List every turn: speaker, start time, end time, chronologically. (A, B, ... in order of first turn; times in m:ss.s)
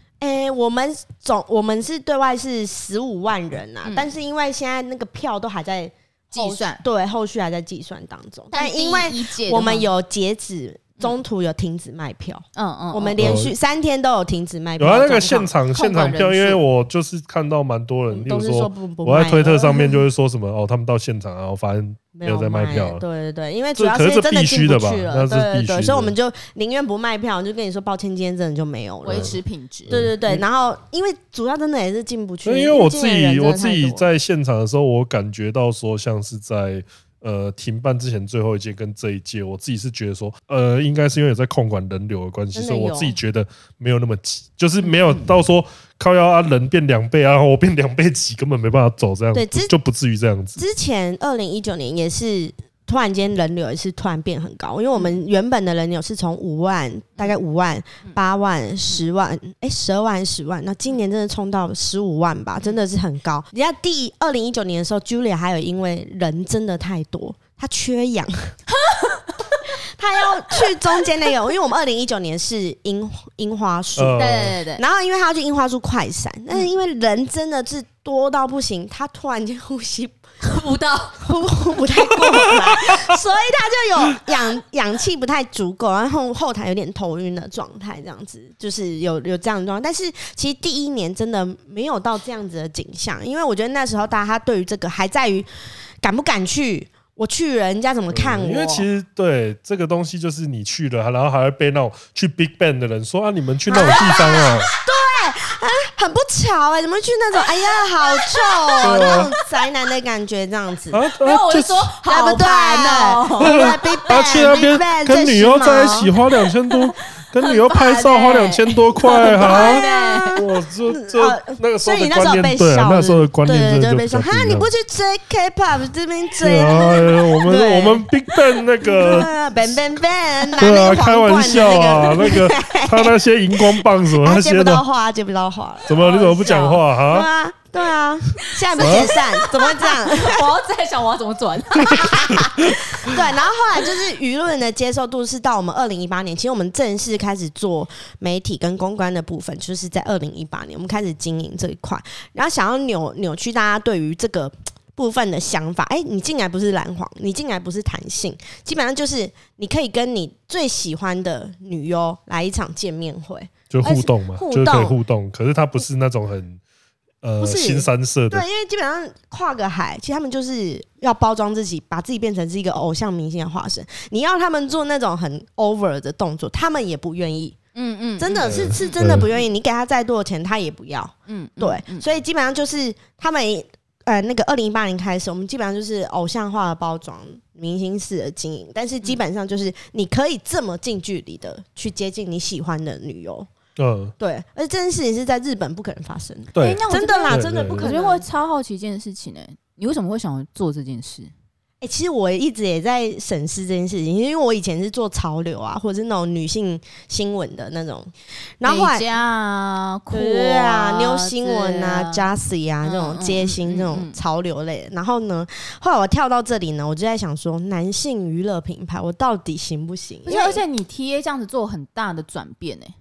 0:00.2-0:15.5 A
0:03.8-0:04.1 B
0:06.3-0:06.8 B
0:08.5-0:09.9 B
0:12.6-0:13.2 B
0:13.2-0:13.5 C
0:14.8-0:23.0 C
0:15.7-0:16.6 B
0:18.1-0:20.0 A
0:22.2-0:34.1 A
0:23.8-0:26.1 C
0:29.0-0:30.0 B
0:29.9-0:30.4 C
0:32.4-0:50.6 C
0:42.5-0:43.2 A
0:44.8-0:45.3 B
0:49.3-0:49.7 A
0:50.6-1:08.6 A
1:08.7-1:09.4 B
1:09.8-1:20.2 A
1:14.0-1:14.5 C
1:14.2-1:14.8 B
1:20.4-1:21.3 B
1:21.2-1:35.5 A
1:36.0-1:38.9 A
1:38.1-1:44.7 C
1:43.7-1:51.0 A
1:48.4-1:49.3 B
1:48.8-1:49.3 C
1:50.9-1:51.9 C
1:51.2-1:54.0 B
1:52.0-1:56.1 A
1:53.4-1:59.8 C
1:57.4-2:00.4 B
1:59.2-2:20.6 A
2:00.4-2:04.7 C
2:06.4-2:09.3 C
2:10.6-2:14.8 C
2:15.9-2:17.3 C
2:18.5-2:23.1 B
2:18.8-2:19.1 C
2:21.8-2:45.0 A
2:43.7-2:46.6 C
2:47.2-2:48.4 C
2:47.4-2:57.6 A
2:57.8-2:59.3 B
2:58.2-3:13.5 A
2:58.5-2:59.3 C
3:01.3-3:02.1 B
3:13.8-3:14.1 C
3:14.2-3:18.2 A
3:16.6-3:17.9 C
3:16.6-3:21.3 B
3:21.8-3:29.1 A
3:28.6-3:32.3 B
3:30.1-3:40.6 A
3:32.8-3:34.2 B
3:40.2-3:42.9 B